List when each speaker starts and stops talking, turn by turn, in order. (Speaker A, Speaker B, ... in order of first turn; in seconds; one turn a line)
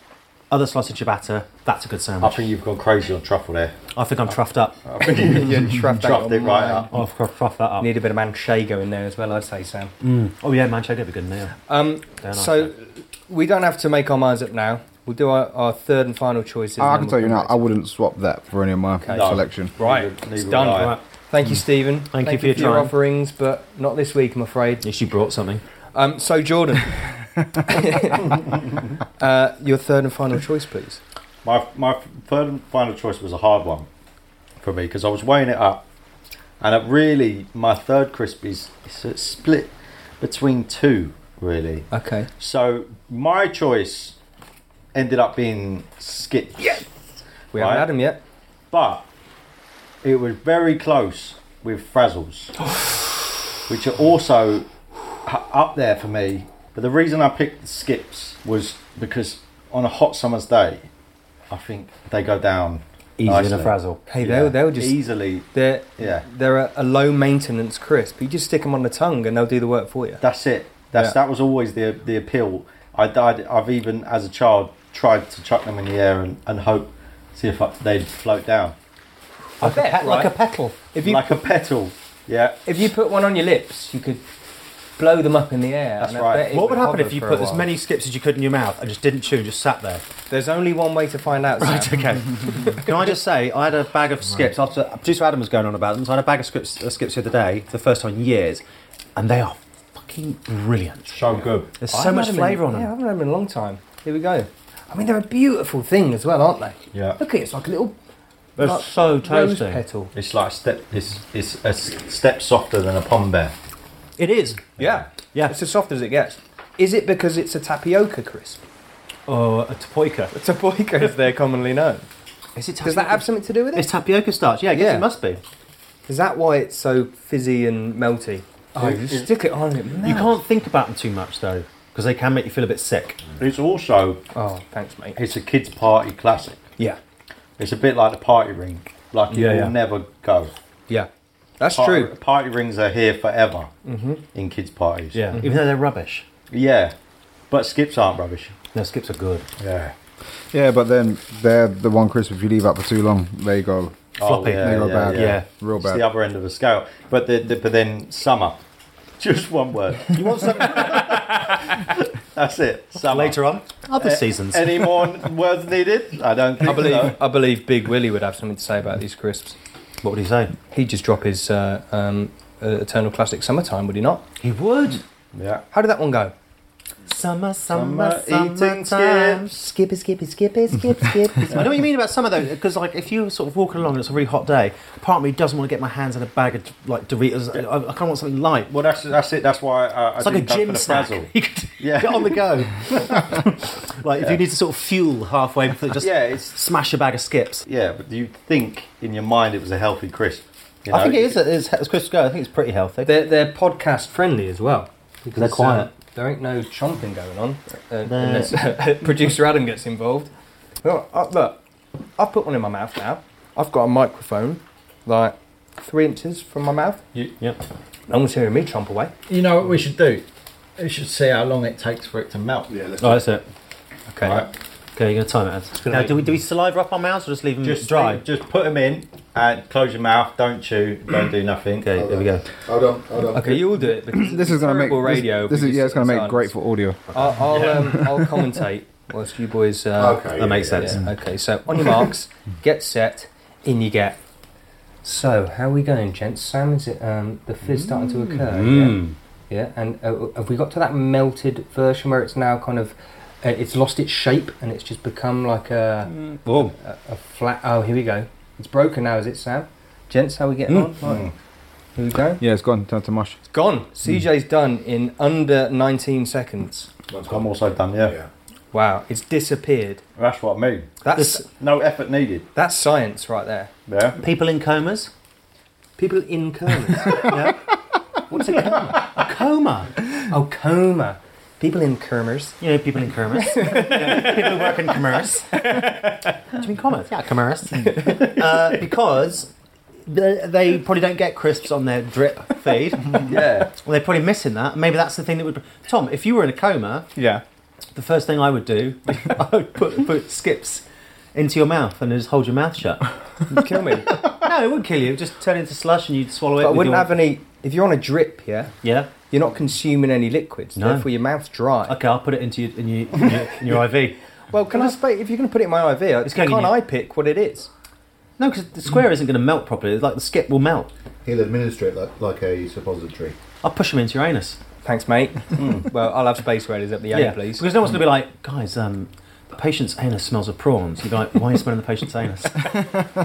Speaker A: 0.5-2.5
Speaker B: 2.2-3.8
Speaker A: 3.9-4.8
Speaker B: 4.8-6.9
Speaker C: 5.0-6.9
Speaker A: 6.9-7.9
Speaker C: 7.8-9.9
Speaker A: 10.0-11.5
Speaker C: 11.7-17.6
Speaker A: 12.2-12.7
Speaker D: 16.8-19.7
Speaker C: 19.0-24.9
Speaker B: 19.1-21.0
Speaker A: 20.6-21.0
Speaker A: 22.1-22.9
Speaker A: 24.8-25.6
Speaker C: 25.9-27.0
Speaker C: 27.6-28.4
Speaker C: 29.2-31.0
Speaker B: 31.4-33.9
Speaker B: 34.6-35.8
Speaker B: 36.6-44.1
Speaker C: 41.9-42.3
Speaker B: 44.9-46.9
Speaker C: 47.5-48.2
Speaker B: 47.5-47.9
Speaker B: 48.7-49.0
Speaker B: 50.0-52.6
Speaker B: 53.7-54.7
Speaker B: 55.2-60.9
Speaker B: 61.5-66.2
Speaker A: 63.2-64.0
Speaker C: 64.1-70.2
Speaker B: 70.2-78.8
Speaker C: 79.6-80.3
Speaker A: 79.6-80.8
Speaker C: 80.9-81.5
Speaker B: 81.0-82.6
Speaker C: 82.7-84.2
Speaker C: 85.0-87.7
Speaker B: 86.0-86.5
Speaker A: 86.5-90.0
Speaker C: 90.3-92.8
Speaker A: 91.6-98.6
Speaker A: 99.2-102.9
Speaker B: 101.1-101.7
Speaker C: 101.9-107.9
Speaker B: 106.9-107.2
Speaker A: 108.6-109.8
Speaker C: 108.6-110.1
Speaker B: 110.1-113.5
Speaker A: 114.2-114.7
Speaker B: 114.8-115.0
Speaker C: 114.8-118.6
Speaker A: 119.3-120.3
Speaker C: 120.3-122.0
Speaker A: 122.5-125.4
Speaker C: 122.8-123.9
Speaker C: 124.7-125.1
Speaker C: 126.1-130.3
Speaker B: 128.8-129.3
Speaker A: 130.0-133.2
Speaker B: 133.4-134.2
Speaker C: 134.3-135.2
Speaker B: 135.2-136.6
Speaker B: 137.6-140.5
Speaker A: 139.3-139.7
Speaker C: 140.9-142.1
Speaker B: 141.7-143.7
Speaker C: 143.8-144.2
Speaker B: 144.3-145.4
Speaker A: 145.1-146.2
Speaker B: 146.5-146.9
Speaker B: 147.5-148.6
Speaker A: 148.7-149.5
Speaker B: 149.6-149.9
Speaker D: 150.5-154.0
Speaker B: 154.2-158.6
Speaker A: 154.2-155.4
Speaker D: 154.6-156.0
Speaker B: 159.2-163.4
Speaker A: 160.1-161.8
Speaker A: 163.1-165.1
Speaker B: 164.0-167.2
Speaker C: 166.6-169.6
Speaker A: 170.0-170.5
Speaker C: 170.7-174.2
Speaker A: 174.4-175.0
Speaker B: 175.3-175.6
Speaker C: 175.7-176.3
Speaker A: 177.1-179.6
Speaker B: 177.7-179.6
Speaker C: 179.6-181.6
Speaker A: 181.2-188.7
Speaker B: 188.7-193.4
Speaker A: 190.2-197.7
Speaker B: 196.0-196.6
Speaker B: 197.7-201.4
Speaker A: 200.9-203.1
Speaker C: 203.0-210.3
Speaker A: 205.3-205.9
Speaker A: 208.1-208.6
Speaker C: 210.8-211.6
Speaker C: 212.2-217.0
Speaker C: 218.1-219.1
Speaker B: 219.3-220.2
Speaker B: 220.8-222.7
Speaker E: 222.7-223.2
Speaker A: 223.0-223.4
Speaker C: 224.1-224.4
Speaker B: 224.2-224.5
Speaker A: 224.9-228.2
Speaker C: 225.8-226.1
Speaker B: 227.6-232.1
Speaker A: 231.8-232.4
Speaker E: 232.0-233.6
Speaker C: 233.3-236.5
Speaker D: 233.4-238.4
Speaker C: 237.1-240.2
Speaker E: 239.9-241.0
Speaker A: 240.3-241.1
Speaker C: 240.7-244.2
Speaker C: 245.0-256.1
Speaker A: 247.9-249.2
Speaker A: 256.1-256.7
Speaker C: 256.8-261.3
Speaker B: 261.0-261.3
Speaker C: 261.9-262.4
Speaker D: 262.4-263.4
Speaker C: 263.5-266.9
Speaker E: 267.1-268.3
Speaker B: 267.2-268.1
Speaker C: 268.7-270.0
Speaker B: 270.2-270.9
Speaker C: 271.0-271.4
Speaker A: 271.1-271.4
Speaker B: 271.5-272.5
Speaker C: 272.5-273.7
Speaker B: 273.9-274.2
Speaker A: 274.2-275.1
Speaker C: 276.0-277.3
Speaker A: 277.2-277.6
Speaker C: 278.3-279.0
Speaker A: 278.9-279.9
Speaker C: 280.3-282.5
Speaker A: 282.6-285.8
Speaker C: 283.5-284.7
Speaker C: 285.6-286.2
Speaker A: 286.6-289.5
Speaker B: 288.0-288.6
Speaker A: 290.1-297.1
Speaker B: 293.2-293.7
Speaker C: 297.1-297.4
Speaker A: 297.9-300.8
Speaker A: 301.3-303.0
Speaker C: 303.5-304.1
Speaker A: 304.2-307.1
Speaker C: 306.6-308.7
Speaker A: 308.8-309.1
Speaker C: 309.3-312.0
Speaker A: 310.8-311.1
Speaker A: 311.9-314.2
Speaker C: 314.5-317.7
Speaker A: 316.2-316.8
Speaker A: 318.4-320.9
Speaker E: 321.2-323.4
Speaker A: 323.6-324.6
Speaker C: 324.8-327.6
Speaker B: 325.6-325.9
Speaker A: 327.1-332.9